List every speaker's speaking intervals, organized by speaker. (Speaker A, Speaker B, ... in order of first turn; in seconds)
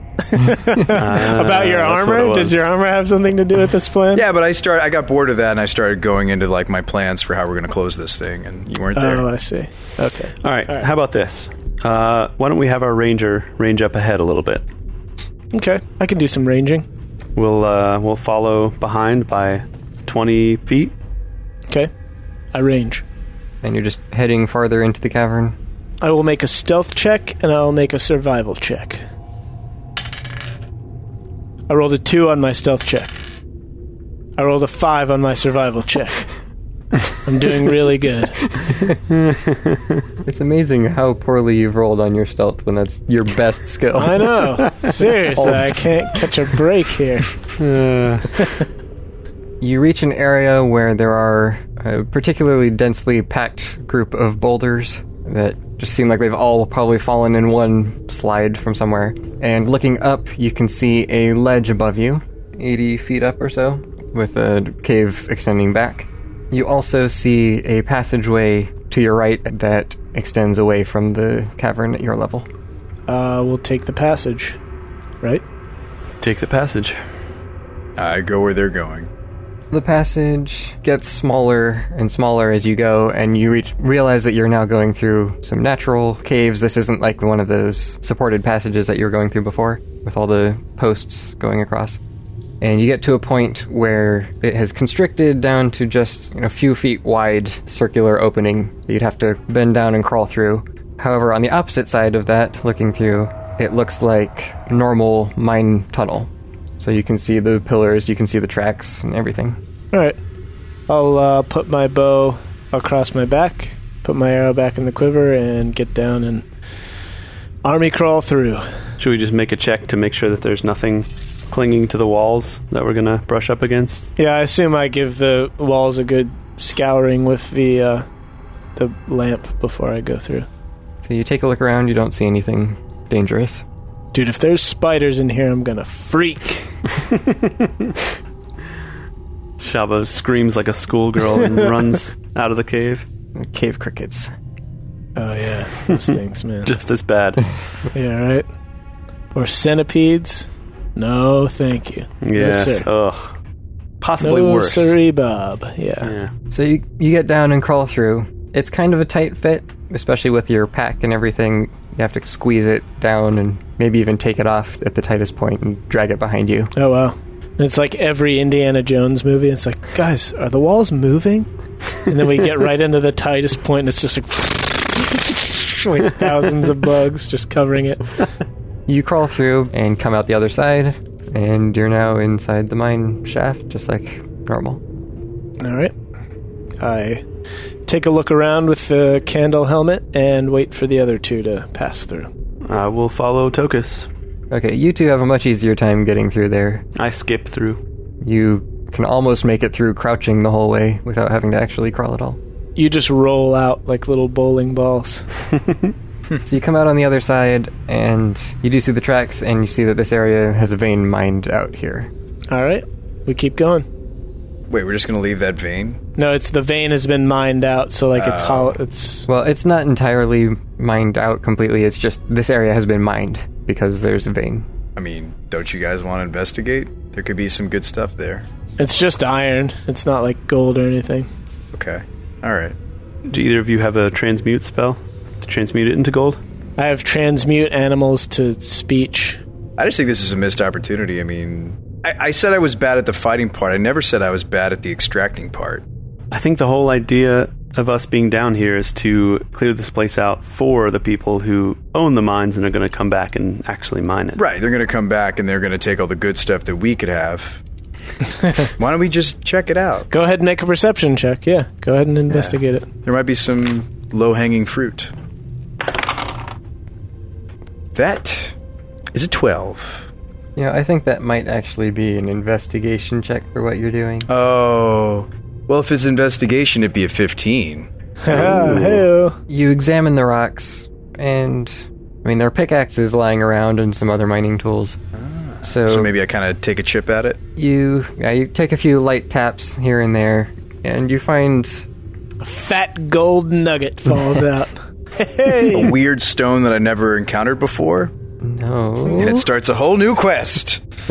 Speaker A: 0.3-4.2, 8.9-10.8, 15.5-16.9, 22.5-23.0, 26.0-29.0, 31.7-33.2, 34.4-36.3, 37.2-38.5, 44.0-47.3, 73.1-74.6, 109.9-110.2, 110.9-116.5, 117.6-118.7, 124.2-128.1, 128.8-130.5, 134.1-136.7, 145.2-146.7, 147.9-148.4, 149.3-152.8, 154.2-156.1, 166.7-171.5, 172.0-178.0, 185.6-185.9, 186.8-187.2, 187.8-192.3, 202.8-205.2, 212.5-213.8, 216.2-219.3, 228.8-231.3, 236.8-239.4, 260.1-262.9, 278.2-279.4, 292.4-295.9
Speaker B: 0.9-2.6, 10.4-14.6, 17.4-20.9, 39.1-40.0, 47.6-48.5, 76.2-77.0, 119.0-124.1, 137.4-137.9, 139.6-143.0, 146.6-147.6, 152.2-153.3, 154.0-155.0, 156.0-156.3, 192.7-194.1, 196.9-197.8, 233.3-236.4, 246.3-254.4
Speaker C: 4.1-9.3, 78.0-79.1, 214.7-216.0, 218.1-218.8, 224.9-228.5, 231.7-232.8, 239.8-245.8, 254.3-257.6, 258.8-260.1, 262.3-265.1, 267.9-268.5, 269.1-270.1, 274.3-278.8, 285.2-287.4, 295.7-298.1, 299.1-300.8
Speaker D: 23.6-25.6, 40.2-44.4, 45.4-45.8, 49.6-72.5, 79.7-92.0, 92.6-109.6, 131.0-133.6, 143.3-144.3, 156.5-166.7, 178.9-184.8, 194.5-196.8, 198.2-202.4, 206.4-212.1, 219.3-224.7, 270.6-274.3, 279.5-285.0, 285.6-286.1, 287.6-291.8, 298.4-299.4